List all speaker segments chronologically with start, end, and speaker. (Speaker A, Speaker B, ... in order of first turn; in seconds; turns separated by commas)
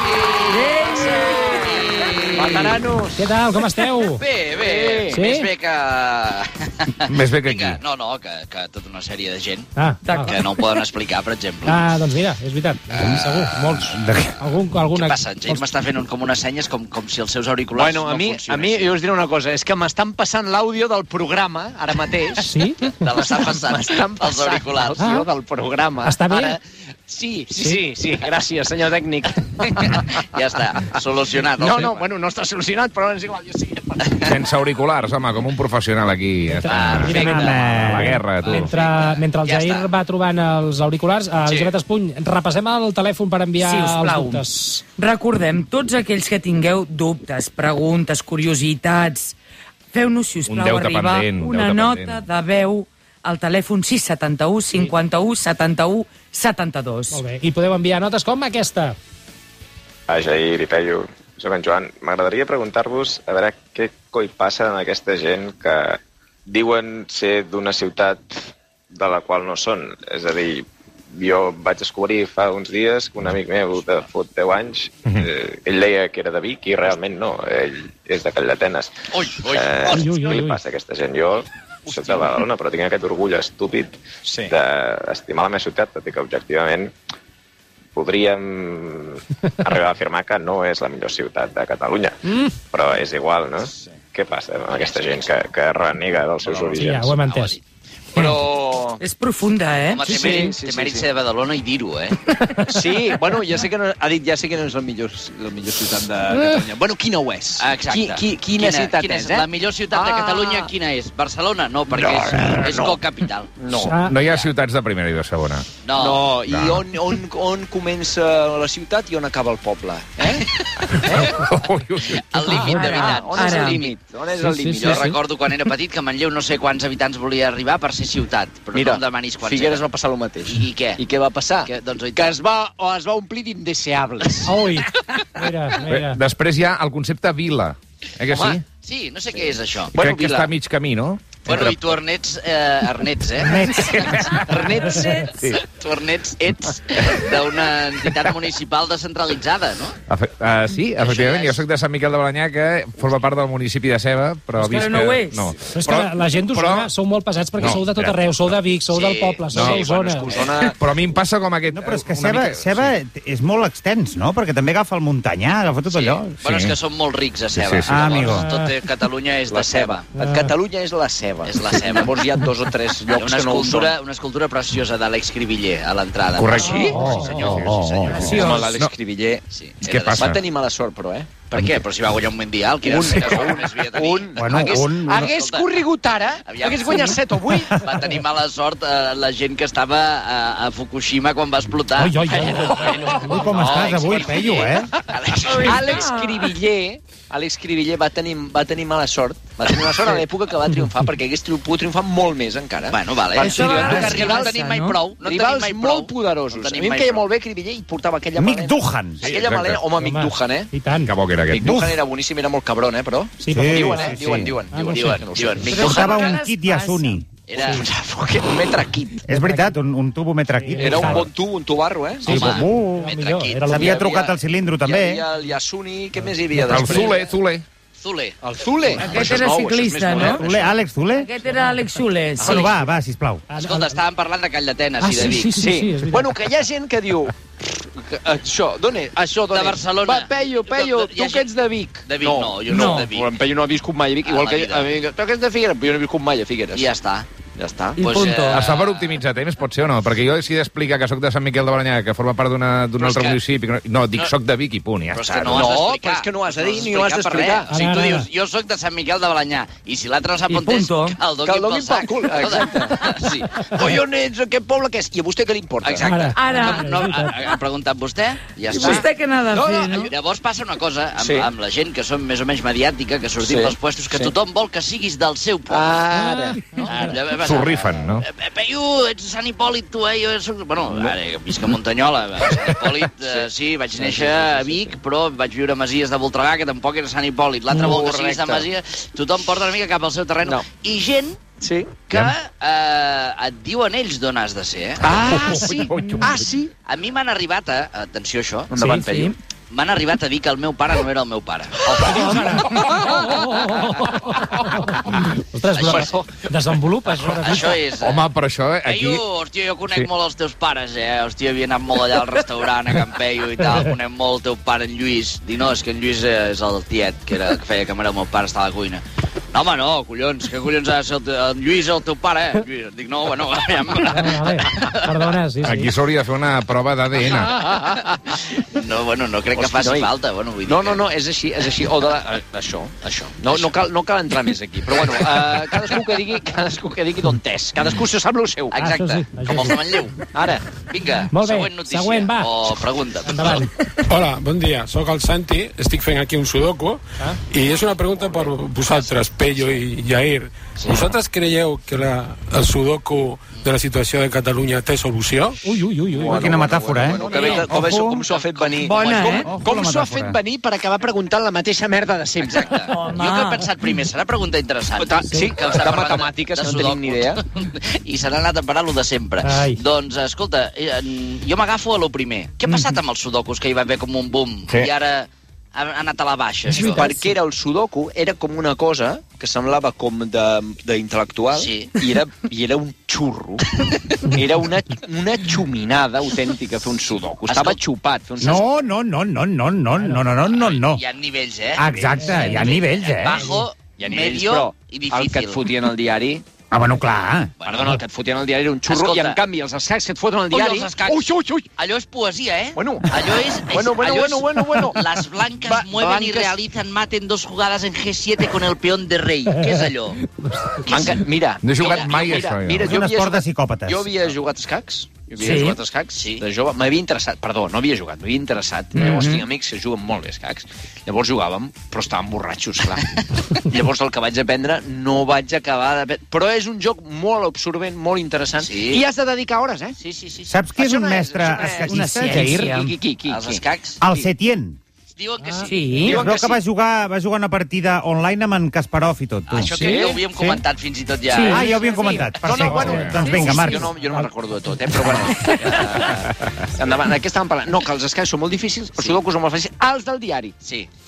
Speaker A: 0.2-2.8, Speaker B: 0.5-1.6, Speaker C: 2.3-3.3, Speaker D: 3.2-4.2, Speaker A: 3.9-9.7, Speaker C: 4.5-5.2, Speaker D: 5.1-5.5, Speaker E: 7.1-7.8, Speaker D: 9.8-10.3, Speaker B: 10.0-10.7, Speaker A: 10.2-11.9, Speaker D: 11.7-15.7, Speaker A: 12.9-14.2, Speaker F: 13.9-14.3, Speaker A: 14.9-19.0, Speaker C: 17.8-22.5, Speaker D: 22.4-22.9, Speaker A: 22.9-25.1, Speaker C: 23.1-30.0, Speaker D: 25.0-25.2, Speaker D: 26.0-26.6, Speaker A: 29.6-32.0, Speaker C: 31.5-34.3, Speaker E: 34.2-38.8, Speaker D: 36.5-44.8, Speaker A: 36.7-37.8, Speaker F: 37.3-38.2, Speaker A: 38.3-39.9, Speaker A: 41.5-41.8, Speaker B: 43.6-49.4, Speaker B: 49.9-57.2, Speaker E: 50.5-52.3, Speaker D: 57.1-59.0, Speaker G: 60.1-68.3, Speaker G: 68.9-84.0, Speaker A: 79.1-80.4, Speaker D: 79.9-80.6, Speaker C: 81.9-82.3, Speaker C: 84.2-84.5, Speaker G: 84.5-86.9, Speaker G: 87.9-97.1, Speaker A: 94.7-95.3, Speaker A: 96.5-97.6, Speaker D: 96.8-97.6, Speaker C: 98.1-99.0, Speaker B: 99.0-100.2, Speaker A: 99.9-102.2, Speaker C: 100.0-101.1, Speaker D: 102.5-102.9, Speaker C: 102.7-110.7, Speaker A: 107.6-113.5, Speaker C: 111.9-113.0, Speaker C: 113.6-114.0, Speaker D: 113.8-114.2, Speaker E: 114.1-115.7, Speaker A: 115.8-116.3, Speaker C: 115.9-120.5, Speaker E: 116.5-116.9, Speaker A: 120.6-123.9, Speaker C: 121.1-121.5, Speaker E: 121.1-122.8, Speaker C: 122.4-125.1, Speaker B: 122.6-123.9, Speaker D: 124.4-125.1, Speaker A: 124.8-129.9, Speaker C: 128.7-134.7, Speaker A: 130.4-131.0, Speaker A: 131.7-132.3, Speaker D: 134.4-136.2, Speaker E: 135.8-138.6, Speaker C: 138.3-138.6, Speaker A: 138.8-140.5, Speaker C: 139.4-140.4, Speaker E: 140.0-141.9, Speaker A: 141.4-150.0, Speaker F: 143.4-144.3, Speaker C: 144.5-145.3, Speaker E: 145.3-145.6, Speaker E: 150.1-156.9, Speaker A: 151.0-151.6, Speaker B: 154.6-155.5, Speaker D: 155.7-160.3, Speaker E: 157.6-158.6, Speaker A: 158.9-159.5, Speaker E: 159.5-159.9, Speaker C: 159.5-160.8, Speaker A: 160.3-160.7, Speaker E: 160.8-163.0, Speaker F: 161.7-166.3, Speaker A: 165.9-170.1, Speaker E: 166.4-166.8, Speaker E: 167.5-168.4, Speaker F: 167.9-168.4, Speaker D: 168.3-168.7, Speaker C: 169.5-174.0, Speaker D: 170.2-170.5, Speaker A: 171.4-172.2, Speaker A: 173.1-178.7, Speaker E: 176.3-178.1, Speaker D: 176.6-177.6, Speaker F: 176.9-178.5, Speaker D: 178.1-178.4, Speaker B: 178.2-178.6, Speaker C: 178.3-179.4, Speaker A: 179.5-180.3, Speaker E: 179.8-180.4, Speaker C: 180.2-181.5, Speaker A: 181.5-185.8, Speaker C: 182.9-187.8, Speaker F: 182.9-183.5, Speaker F: 184.3-185.4, Speaker A: 186.4-196.0, Speaker D: 191.9-193.5, Speaker C: 192.4-192.9, Speaker F: 193.2-194.9, Speaker B: 195.5-196.6, Speaker C: 195.6-204.5, Speaker A: 202.9-207.3, Speaker B: 203.4-205.1, Speaker F: 203.7-204.2, Speaker C: 205.2-210.7, Speaker F: 208.4-209.3, Speaker E: 209.2-209.8, Speaker D: 209.9-211.1, Speaker E: 211.1-211.7, Speaker C: 211.5-216.0, Speaker F: 211.6-212.0, Speaker D: 213.4-214.2, Speaker F: 213.5-214.6, Speaker D: 214.7-215.2, Speaker A: 214.8-216.3, Speaker B: 215.7-217.2, Speaker F: 215.8-217.3, Speaker A: 217.5-217.9, Speaker C: 217.6-219.2, Speaker F: 219.2-221.3, Speaker D: 219.3-219.8, Speaker D: 220.6-221.3, Speaker C: 220.8-222.5, Speaker D: 222.2-224.0, Speaker A: 222.2-224.0, Speaker F: 222.4-223.2, Speaker F: 223.7-225.3, Speaker C: 223.7-227.3, Speaker E: 226.6-227.7, Speaker A: 228.0-228.4, Speaker C: 228.4-230.7, Speaker A: 228.9-229.4, Speaker B: 229.0-230.5, Speaker F: 230.2-231.3, Speaker B: 231.1-232.7, Speaker D: 231.4-231.8, Speaker C: 232.4-232.7, Speaker F: 232.4-233.4, Speaker D: 233.5-234.0, Speaker A: 233.6-235.7, Speaker D: 235.0-236.3, Speaker C: 235.6-246.9, Speaker A: 239.5-241.5, Speaker A: 242.1-243.3, Speaker B: 242.7-243.1, Speaker A: 244.2-244.9, Speaker A: 246.7-247.3, Speaker C: 247.6-248.0, Speaker B: 248.0-248.7, Speaker A: 248.0-249.2, Speaker E: 248.5-255.7, Speaker A: 253.0-253.4, Speaker A: 255.1-263.9, Speaker C: 255.5-257.9, Speaker D: 257.7-258.3, Speaker B: 260.5-261.2, Speaker C: 261.4-266.3, Speaker A: 265.8-269.1, Speaker D: 266.0-267.4, Speaker B: 266.3-267.6, Speaker B: 268.7-270.1, Speaker C: 268.8-270.1, Speaker A: 270.0-276.0, Speaker C: 271.2-271.5, Speaker C: 273.4-274.3, Speaker C: 275.7-277.2, Speaker A: 276.8-291.4, Speaker E: 277.3-278.2, Speaker C: 280.9-281.1, Speaker C: 282.4-285.0, Speaker C: 287.7-288.7, Speaker C: 291.6-292.0, Speaker A: 292.1-295.1, Speaker C: 295.0-296.7, Speaker E: 295.3-296.5, Speaker A: 296.9-298.7, Speaker C: 298.7-299.4, Speaker B: 298.8-299.4, Speaker A: 299.7-301.8, Speaker C: 301.8-303.4, Speaker D: 302.0-307.8, Speaker C: 303.9-304.5, Speaker A: 305.7-306.2, Speaker C: 305.9-306.3, Speaker A: 307.2-308.3, Speaker E: 308.0-309.2, Speaker A: 308.8-325.3, Speaker D: 324.1-325.9, Speaker E: 325.6-327.6, Speaker C: 327.4-328.2, Speaker A: 328.5-331.1, Speaker C: 329.6-330.1, Speaker C: 330.6-338.8, Speaker A: 338.7-340.3, Speaker D: 338.7-340.1, Speaker C: 340.3-340.6, Speaker A: 340.9-343.6, Speaker D: 341.3-343.8, Speaker H: 344.1-356.5, Speaker A: 348.9-349.8, Speaker C: 350.8-351.1, Speaker D: 355.6-357.5, Speaker C: 356.1-362.8, Speaker F: 356.2-358.2, Speaker A: 357.2-359.4, Speaker B: 358.8-359.5, Speaker F: 359.4-360.4, Speaker A: 362.4-377.1, Speaker B: 362.9-363.7, Speaker C: 365.0-367.4, Speaker D: 369.4-369.8, Speaker B: 372.7-373.0, Speaker B: 376.7-377.3, Speaker C: 376.8-383.6, Speaker A: 381.5-382.0, Speaker C: 384.3-388.8, Speaker A: 387.5-387.8, Speaker F: 388.4-391.0, Speaker D: 390.0-390.2, Speaker A: 390.5-395.7, Speaker F: 391.8-393.5, Speaker D: 392.2-392.8, Speaker D: 393.4-393.6, Speaker C: 394.0-396.4, Speaker F: 396.7-398.0, Speaker A: 397.6-397.9, Speaker C: 397.6-401.7, Speaker A: 398.9-399.4, Speaker A: 400.5-410.2, Speaker C: 402.8-406.6, Speaker C: 410.9-423.0, Speaker A: 410.9-411.1, Speaker E: 411.6-413.0, Speaker A: 411.8-412.3, Speaker F: 412.8-414.1, Speaker B: 415.4-415.8, Speaker A: 416.2-416.4, Speaker B: 418.9-419.5, Speaker C: 423.6-430.0, Speaker A: 428.6-429.1, Speaker A: 430.0-430.6, Speaker F: 430.5-432.8, Speaker C: 430.7-434.3, Speaker B: 431.6-432.9, Speaker A: 433.3-434.0, Speaker F: 434.0-434.8, Speaker A: 435.1-436.6, Speaker D: 435.4-435.7, Speaker B: 435.7-436.2, Speaker F: 436.1-439.8, Speaker C: 436.1-436.4, Speaker A: 439.5-441.8, Speaker C: 439.6-440.3, Speaker F: 440.4-440.6, Speaker B: 441.3-442.2, Speaker F: 441.5-443.9, Speaker D: 441.7-444.3, Speaker C: 442.4-450.5, Speaker E: 442.6-443.2, Speaker B: 445.3-445.7, Speaker A: 450.6-450.9